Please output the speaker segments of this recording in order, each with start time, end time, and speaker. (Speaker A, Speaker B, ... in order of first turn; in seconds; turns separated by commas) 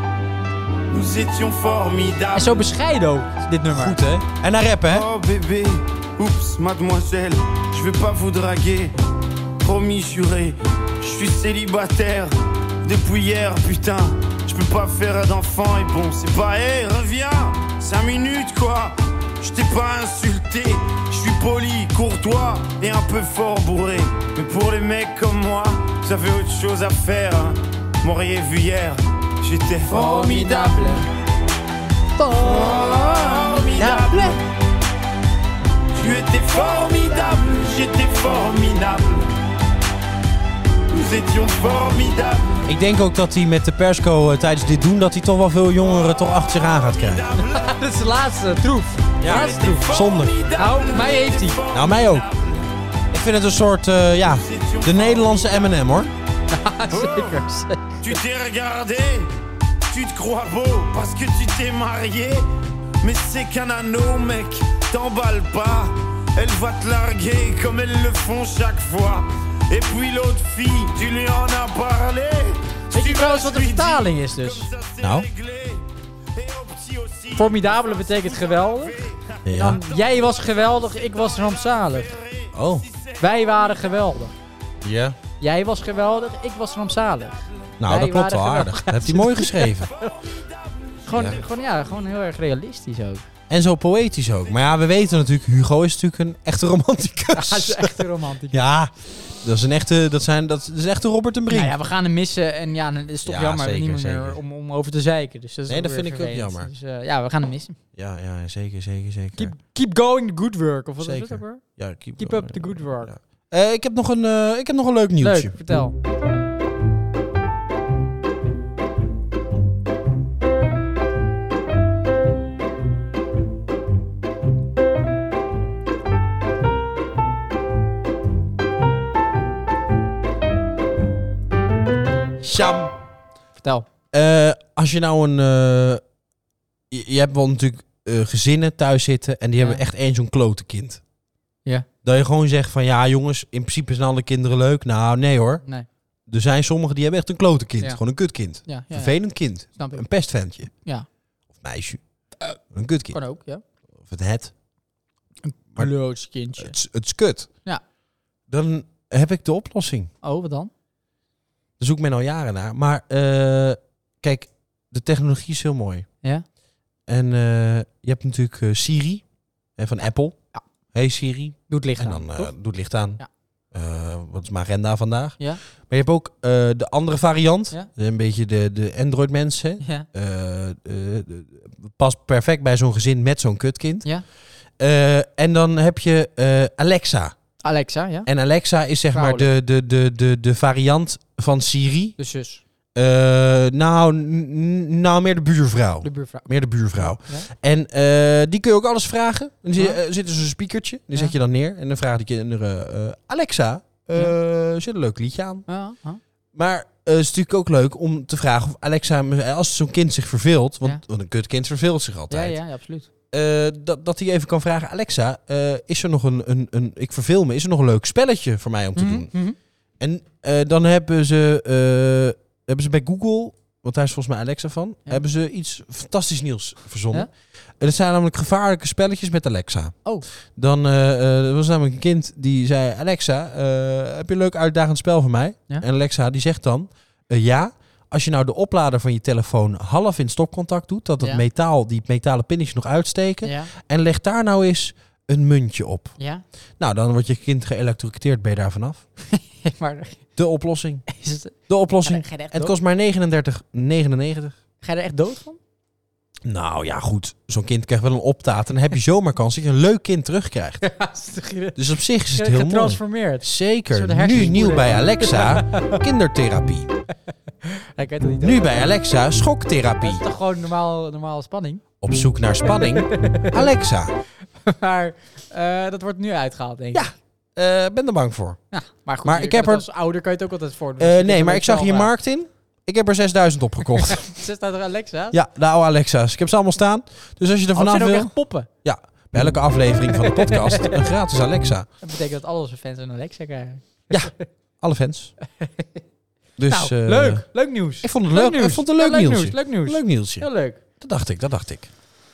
Speaker A: 0.9-2.7, Speaker B: 2.3-4.0, Speaker C: 3.7-5.1, Speaker A: 4.9-8.9, Speaker A: 9.6-31.0, Speaker B: 29.9-31.0, Speaker B: 32.2-33.0, Speaker A: 32.4-34.4, Speaker B: 33.8-34.4, Speaker A: 35.9-39.3, Speaker A: 40.9-42.6, Speaker C: 42.6-47.3, Speaker A: 46.0-47.8, Speaker B: 47.4-49.9, Speaker C: 49.2-50.4, Speaker A: 49.2-52.7, Speaker B: 50.5-51.6, Speaker C: 51.7-52.3, Speaker C: 53.1-56.1, Speaker A: 54.3-55.8, Speaker B: 56.5-58.1, Speaker A: 56.9-57.4, Speaker A: 58.0-59.3, Speaker A: 59.9-62.5, Speaker A: 63.0-83.8, Speaker B: 72.9-74.7, Speaker C: 75.0-75.3, Speaker B: 77.3-82.2, Speaker C: 79.4-79.8, Speaker C: 82.5-82.8, Speaker B: 83.2-84.3, Speaker C: 84.8-85.2, Speaker B: 85.4-90.1, Speaker C: 87.8-89.9, Speaker A: 89.6-91.4, Speaker B: 91.0-93.2, Speaker C: 91.1-91.4, Speaker C: 93.5-101.7, Speaker B: 97.3-98.6, Speaker B: 101.5-107.8, Speaker C: 103.2-104.4, Speaker C: 105.7-106.7, Speaker C: 107.9-109.5, Speaker B: 109.3-111.6, Speaker C: 111.0-115.5, Speaker B: 112.2-113.1, Speaker B: 115.2-115.9, Speaker C: 132.4-132.9, Speaker B: 133.6-133.9, Speaker C: 134.1-136.0, Speaker C: 136.9-141.0, Speaker C: 142.0-145.6, Speaker C: 146.3-150.7, Speaker B: 148.6-150.0, Speaker C: 151.5-152.0, Speaker C: 152.7-153.2, Speaker B: 153.1-153.6, Speaker C: 154.0-154.5, Speaker B: 155.4-156.8, Speaker C: 156.6-157.5, Speaker C: 158.5-160.1, Speaker B: 160.2-160.7, Speaker C: 161.8-166.1, Speaker C: 167.1-169.2, Speaker C: 169.8-173.2, Speaker B: 171.7-172.5, Speaker C: 173.7-184.1, Speaker B: 179.8-180.1, Speaker C: 184.8-187.3, Speaker B: 187.6-188.3, Speaker C: 188.2-192.2, Speaker B: 189.1-189.5, Speaker B: 192.2-192.6, Speaker C: 192.9-205.6, Speaker B: 196.0-197.5, Speaker B: 205.7-206.2, Speaker C: 206.5-212.6, Speaker B: 212.3-213.1, Speaker C: 213.3-219.3, Speaker B: 218.9-219.6, Speaker C: 220.0-230.0, Speaker C: 230.5-246.2, Speaker B: 243.4-243.7, Speaker B: 246.2-246.4, Speaker C: 246.8-249.0, Speaker B: 249.3-250.2, Speaker C: 250.3-251.0, Speaker B: 251.1-252.8, Speaker C: 251.7-254.5, Speaker B: 254.8-255.6, Speaker C: 256.4-260.8, Speaker B: 260.8-266.0, Speaker C: 261.8-266.9, Speaker B: 267.6-268.9, Speaker C: 268.4-270.2, Speaker B: 270.0-271.8, Speaker C: 272.0-274.1, Speaker B: 272.6-273.7, Speaker B: 274.6-277.1, Speaker C: 276.9-278.6, Speaker B: 278.7-282.1, Speaker C: 279.2-279.9, Speaker C: 281.0-284.2, Speaker B: 284.0-285.4, Speaker C: 285.3-288.3, Speaker B: 287.7-288.7, Speaker C: 288.8-291.9, Speaker B: 290.1-291.1, Speaker B: 292.0-294.4, Speaker C: 294.1-295.3, Speaker B: 295.6-296.0, Speaker C: 296.6-297.5, Speaker B: 296.7-300.8, Speaker C: 298.0-300.5, Speaker C: 301.0-301.9